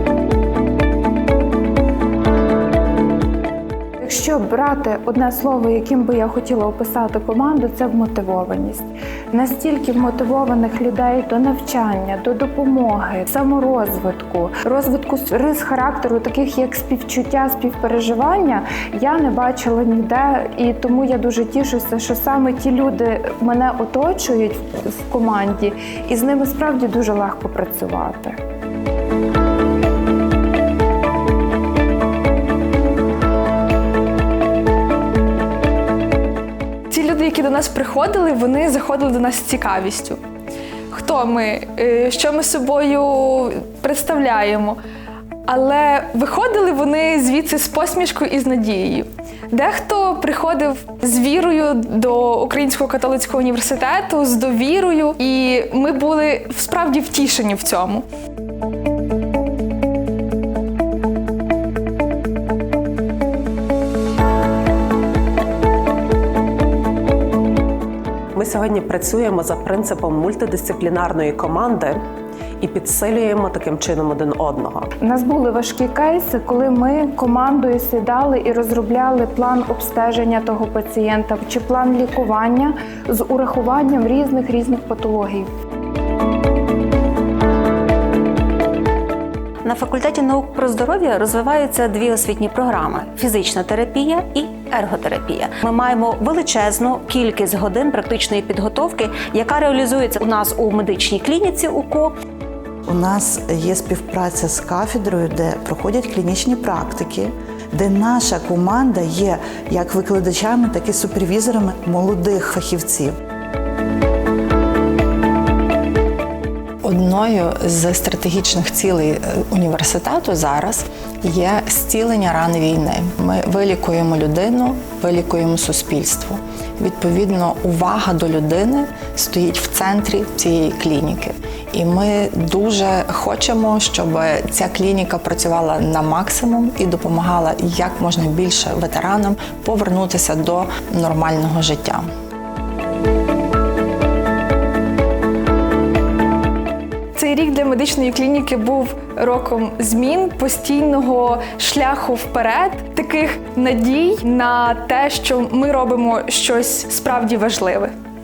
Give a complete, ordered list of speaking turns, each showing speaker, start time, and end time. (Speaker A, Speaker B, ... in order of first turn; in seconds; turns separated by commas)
Speaker A: 4.0-28.4, Speaker B: 36.9-40.2, Speaker B: 40.9-44.8, Speaker B: 45.5-58.0, Speaker C: 68.3-72.0, Speaker C: 72.6-74.9, Speaker A: 75.0-85.5, Speaker D: 89.6-102.1, Speaker E: 102.9-113.2, Speaker F: 116.8-142.1, Speaker B: 147.2-157.9